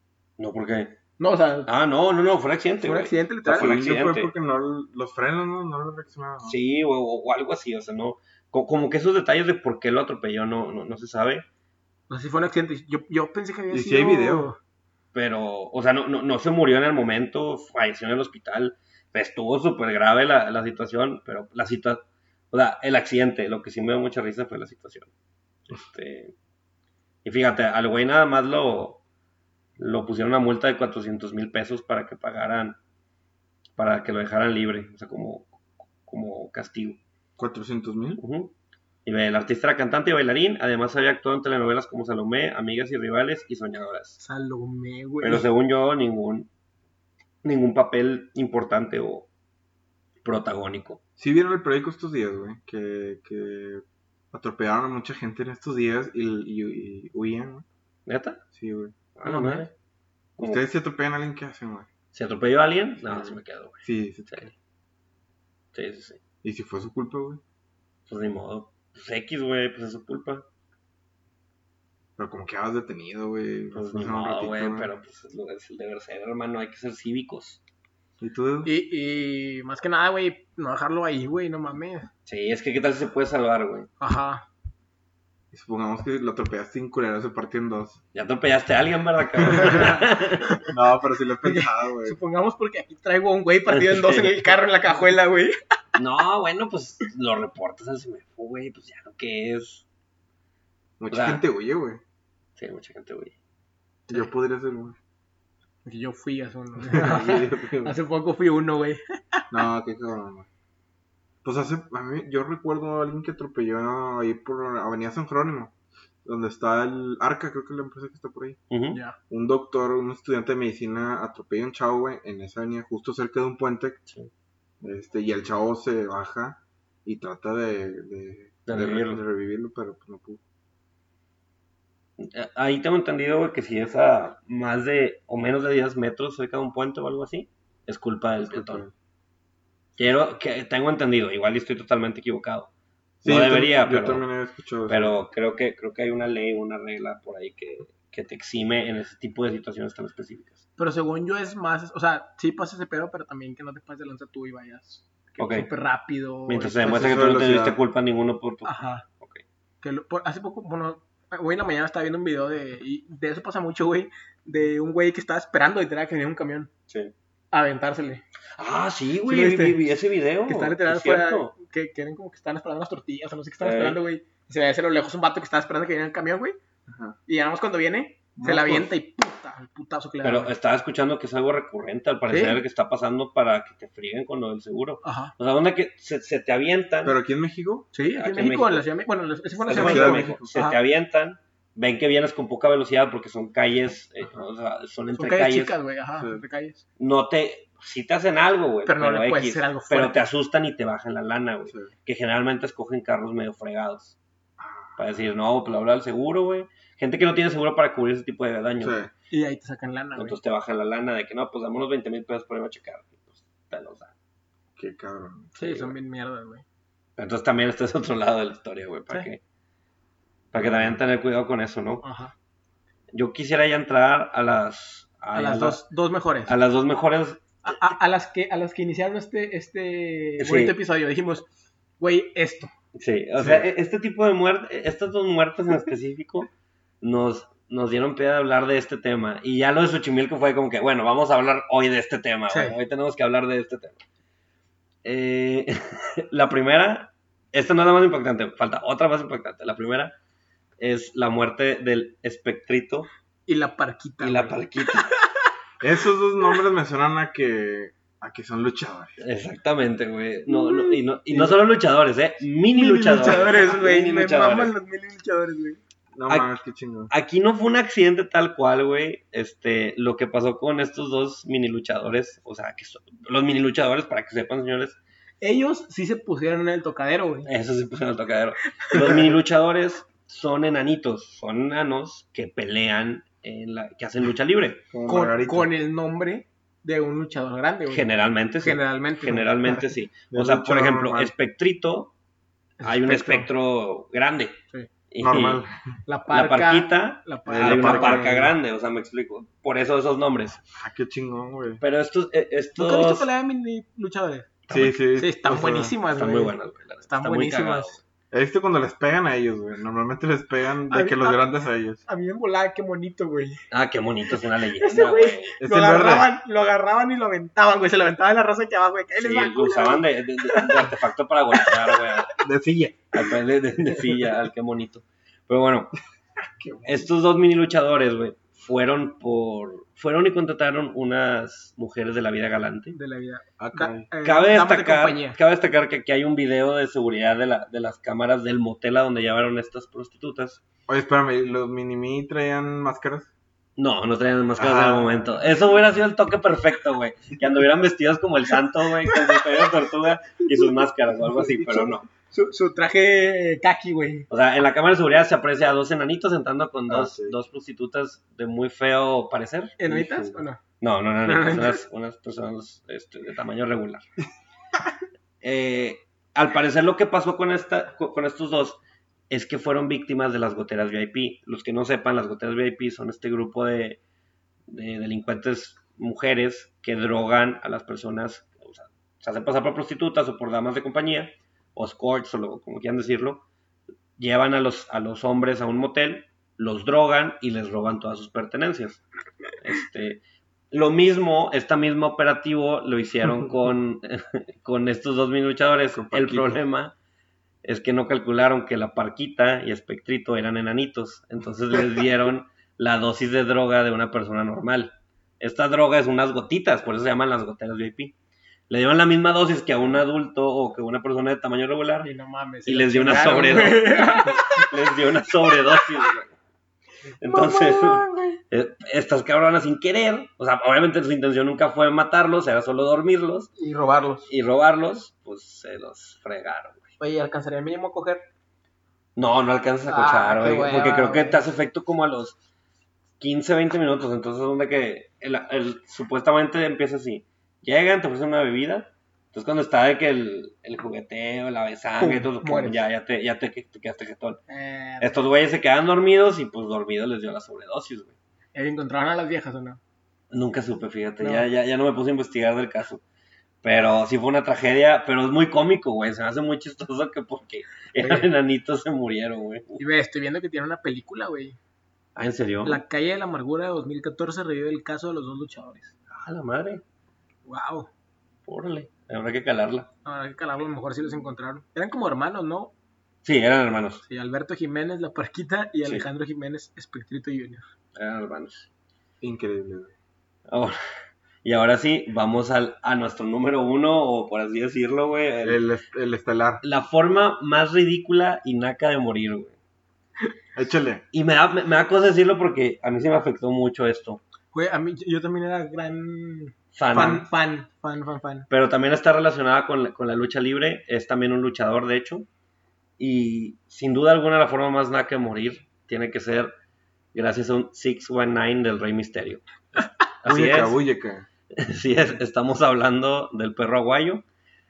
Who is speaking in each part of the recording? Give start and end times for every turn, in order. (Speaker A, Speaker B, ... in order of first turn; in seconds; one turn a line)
Speaker A: 0.4-0.9
Speaker B: 1.2-1.7
Speaker A: 1.7-4.3
Speaker B: 2.8-3.7
Speaker C: 3.5-6.5
Speaker A: 6.4-11.4
Speaker B: 12.1-14.6
Speaker C: 13.7-14.5
Speaker A: 15.1-25.1
Speaker A: 25.7-26.3
Speaker A: 27.2-29.0
Speaker A: 29.8-32.8
Speaker A: 33.8-35.5
Speaker A: 36.0-37.0
Speaker C: 37.4-38.2
Speaker A: 38.2-38.5
Speaker A: 39.0-44.2
Speaker B: 44.2-45.5
Speaker A: 45.2-46.5
Speaker A: 47.4-49.3
Speaker A: 50.2-51.0
Speaker C: 51.2-57.6
Speaker A: 58.0-58.4
Speaker C: 58.5-59.0
Speaker A: 59.1-59.7
Speaker B: 59.2-59.7
Speaker C: 60.4-61.9
Speaker A: 62.1-64.5
Speaker C: 63.0-64.5
Speaker A: 65.7-66.2
Speaker C: 66.4-67.4
Speaker A: 68.1-70.4
Speaker C: 72.2-74.9
Speaker A: 73.7-77.6
Speaker C: 78.2-78.7
Speaker B: 78.6-82.1
Speaker A: 82.2-83.9
Speaker B: 84.0-84.5
Speaker C: 85.5-88.0
Speaker A: 88.1-90.6
Speaker C: 89.5-89.9
Speaker C: 90.7-92.2
Speaker B: 91.4-95.5
Speaker A: 93.7-94.5
Speaker A: 96.0-99.8
Speaker C: 101.0-102.0
Speaker A: 101.1-101.4
Speaker A: 102.6-103.3
Speaker C: 104.1-105.0
Speaker B: 105.8-109.4
Speaker C: 106.8-108.0
Speaker C: 109.5-110.5
Speaker C: 111.4-118.6
Speaker A: 118.7-119.0
Speaker B: 118.9-119.2
Speaker C: 119.3-124.0
Speaker C: 124.8-130.4
Speaker A: 128.7-129.2
Speaker A: 132.2-138.8
Speaker C: 138.4-138.9
Speaker A: 140.0-142.7
Speaker A: 143.2-144.2
Speaker C: 143.2-145.2
Speaker A: 144.9-150.6
Speaker B: 150.8-157.1
Speaker A: 155.4-155.7
Speaker A: 156.5-159.4
Speaker C: 156.8-157.8
Speaker B: 158.6-159.0
Speaker B: 159.8-166.7
Speaker B: 167.5-168.2
Speaker A: 168.6-171.5
Speaker B: 169.2-169.8
Speaker B: 170.5-176.6
Speaker A: 173.6-174.0
Speaker C: 176.9-177.2
Speaker B: 177.3-180.5
Speaker C: 178.3-178.9
Speaker A: 180.2-187.2
Speaker B: 182.3-182.6
Speaker B: 185.0-185.3
Speaker C: 187.0-187.9
Speaker B: 187.9-190.8
Speaker A: 188.0-188.8
Speaker A: 189.6-195.7
Speaker C: 189.7-190.5
Speaker B: 195.1-196.8
Speaker C: 196.2-196.4
Speaker A: 197.0-204.2
Speaker B: 198.8-200.2
Speaker C: 204.6-205.0
Speaker A: 205.0-209.0
Speaker C: 208.8-209.1
Speaker B: 209.3-210.4
Speaker A: 210.2-214.1
Speaker C: 214.8-215.6
Speaker B: 215.6-216.6
Speaker A: 215.6-215.9
Speaker A: 217.2-219.4
Speaker A: 220.5-222.0
Speaker C: 220.6-221.0
Speaker B: 222.0-222.3
Speaker A: 223.1-225.8
Speaker B: 225.3-226.5
Speaker A: 226.5-227.5
Speaker B: 227.6-231.5
Speaker A: 230.4-230.7
Speaker B: 232.0-232.7
Speaker A: 232.9-236.5
Speaker C: 233.4-233.6
Speaker A: 237.0-244.0
Speaker B: 242.5-242.7
Speaker A: 245.0-250.1
Speaker A: 250.8-253.1
Speaker B: 253.5-255.5
Speaker A: 254.2-255.1
Speaker C: 255.8-259.2
Speaker A: 259.2-264.7
Speaker B: 260.5-261.0
Speaker B: 262.7-265.8
Speaker C: 266.1-267.1
Speaker A: 267.1-275.0
Speaker B: 275.4-277.5
Speaker A: 277.4-284.8
Speaker B: 278.9-279.2
Speaker C: 284.9-285.7
Speaker B: 285.1-288.1
Speaker A: 287.9-292.1
Speaker B: 288.6-289.5
Speaker C: 290.3-291.3
Speaker B: 292.8-293.5
Speaker A: 292.8-294.6
Speaker A: 295.1-295.6
Speaker C: 295.2-295.9
Speaker B: 296.1-298.3
Speaker A: 296.3-300.6
Speaker C: 297.5-298.5
Speaker C: 300.7-301.8
Speaker A: 301.8-303.3
Speaker B: 302.8-304.5
Speaker A: 304.7-305.0
Speaker C: 304.7-305.9
Speaker B: 305.1-308.0
Speaker A: 306.1-308.0
Speaker C: 308.3-312.0
Speaker B: 310.9-311.4
Speaker B: 312.1-313.6
Speaker A: 313.7-315.5
Speaker B: 314.8-320.9
Speaker C: 315.6-316.3
Speaker A: 319.2-322.5
Speaker B: 321.6-322.1
Speaker C: 322.4-323.3
Speaker A: 323.1-325.9
Speaker C: 326.4-327.1
Speaker A: 326.9-332.9
Speaker B: 332.9-335.4
Speaker C: 333.6-334.1
Speaker A: 334.2-340.6
Speaker C: 340.9-343.3
Speaker A: 343.8-352.1
Speaker C: 344.6-345.4
Speaker B: 349.1-349.4
Speaker B: 351.7-354.3
Speaker A: 354.3-364.0
Speaker C: 356.9-357.3
Speaker B: 359.8-360.6
Speaker B: 361.2-361.8
Speaker A: 365.4-368.8
Speaker A: 369.3-374.0
Speaker A: 374.7-383.4
Speaker A: 384.2-389.0
Speaker A: 389.6-396.9
Speaker C: 395.9-396.5
Speaker A: 397.6-408.1
Speaker A: 408.7-412.1
Speaker B: 412.0-414.7
Speaker A: 412.6-416.3
Speaker A: 417.2-423.5
Speaker B: 417.2-418.4
Speaker B: 423.6-424.3
Speaker A: 424.3-426.9
Speaker B: 427.0-428.2
Speaker A: 429.1-432.4
Speaker B: 429.9-431.4
Speaker A: 433.2-444.4
Speaker B: 442.0-442.8
Speaker B: 444.5-445.2
Speaker A: 445.0-448.1
Speaker B: 448.5-449.8
Speaker A: 450.3-453.0
Speaker B: 451.2-451.5
Speaker A: 453.6-459.8
Speaker B: 458.0-458.3
Speaker B: 459.8-461.6
Speaker A: 462.1-462.8
Speaker B: 462.6-465.9
Speaker A: 466.1-466.8
Speaker B: 467.4-467.9
Speaker A: 468.4-469.9
Speaker B: 470.0-472.7
Speaker A: 473.2-474.0
Speaker B: 474.0-477.7
Speaker A: 477.9-478.7
Speaker C: 479.2-479.9
Speaker A: 480.5-480.8
Speaker A: 481.4-485.6
Speaker C: 485.4-486.6
Speaker A: 486.6-489.6
Speaker C: 490.5-491.0
Speaker A: 491.1-494.2
Speaker B: 494.5-498.5
Speaker A: 496.7-497.2
Speaker A: 498.5-502.3
Speaker A: 503.0-506.5
Speaker A: 507.1-510.8
Speaker C: 510.2-511.2
Speaker A: 511.5-514.2